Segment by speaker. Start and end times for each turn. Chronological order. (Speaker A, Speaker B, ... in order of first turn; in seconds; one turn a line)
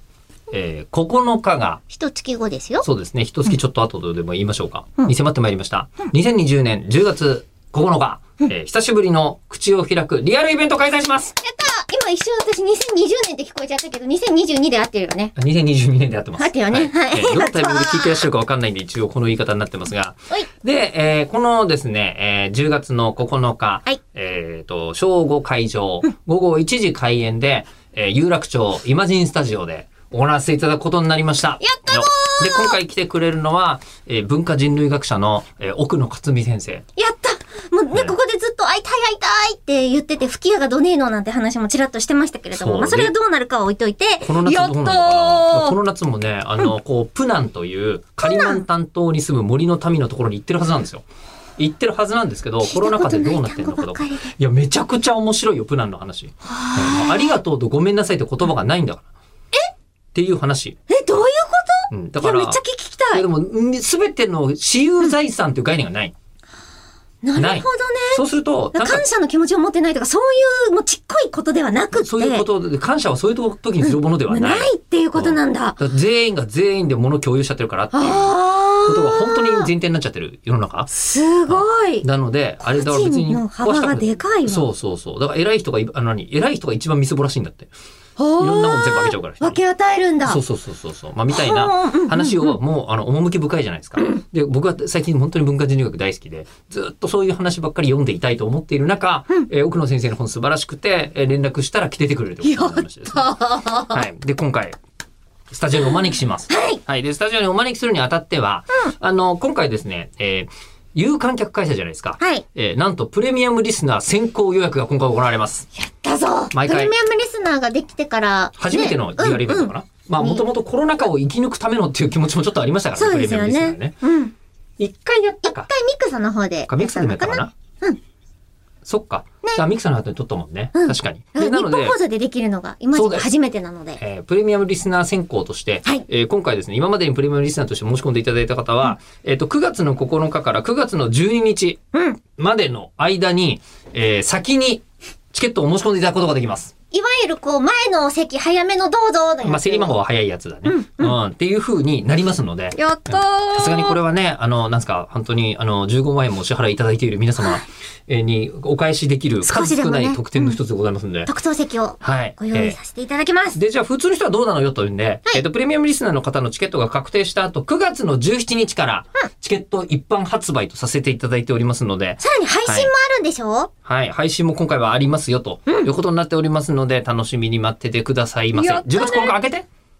Speaker A: 0.5-1.8
Speaker B: 1.9-2.9
Speaker A: 2.8-11.4
Speaker B: 11.4-15.3
Speaker A: 15.3-36.8
Speaker B: 16.4-18.2
Speaker B: 31.6-32.8
Speaker B: 37.0-45.8
Speaker A: 42.5-43.1
Speaker A: 44.2-51.0
Speaker B: 48.2-48.7
Speaker A: 51.6-59.1
Speaker B: 52.6-54.3
Speaker B: 56.5-57.3
Speaker A: 60.1-60.8
Speaker B: 60.9-63.2
Speaker A: 61.9-62.6
Speaker A: 63.1-66.1
Speaker B: 67.2-68.2
Speaker A: 67.3-69.0
Speaker B: 68.7-72.5
Speaker A: 71.9-80.9
Speaker B: 73.8-75.8
Speaker B: 77.9-79.7
Speaker B: 80.9-82.0
Speaker A: 81.5-87.7
Speaker B: 82.7-84.7
Speaker B: 88.2-90.4
Speaker A: 88.4-89.6
Speaker A: 90.2-104.8
Speaker B: 91.3-92.6
Speaker B: 102.4-104.0
Speaker A: 105.5-115.7
Speaker B: 106.5-106.8
Speaker B: 115.8-120.4
Speaker A: 116.5-116.9
Speaker A: 118.6-124.0
Speaker B: 123.0-124.3
Speaker A: 124.8-125.7
Speaker B: 125.4-128.0
Speaker A: 126.7-127.5
Speaker A: 128.8-132.0
Speaker B: 130.8-134.0
Speaker A: 132.9-133.3
Speaker A: 134.0-141.8
Speaker B: 141.9-142.2
Speaker A: 142.4-146.7
Speaker B: 146.9-150.0
Speaker A: 149.4-161.3
Speaker B: 150.7-151.2
Speaker B: 152.8-154.0
Speaker B: 159.4-160.6
Speaker B: 161.3-163.6
Speaker A: 162.0-162.8
Speaker A: 163.6-172.9
Speaker B: 172.2-173.7
Speaker A: 173.8-179.7
Speaker B: 178.5-179.4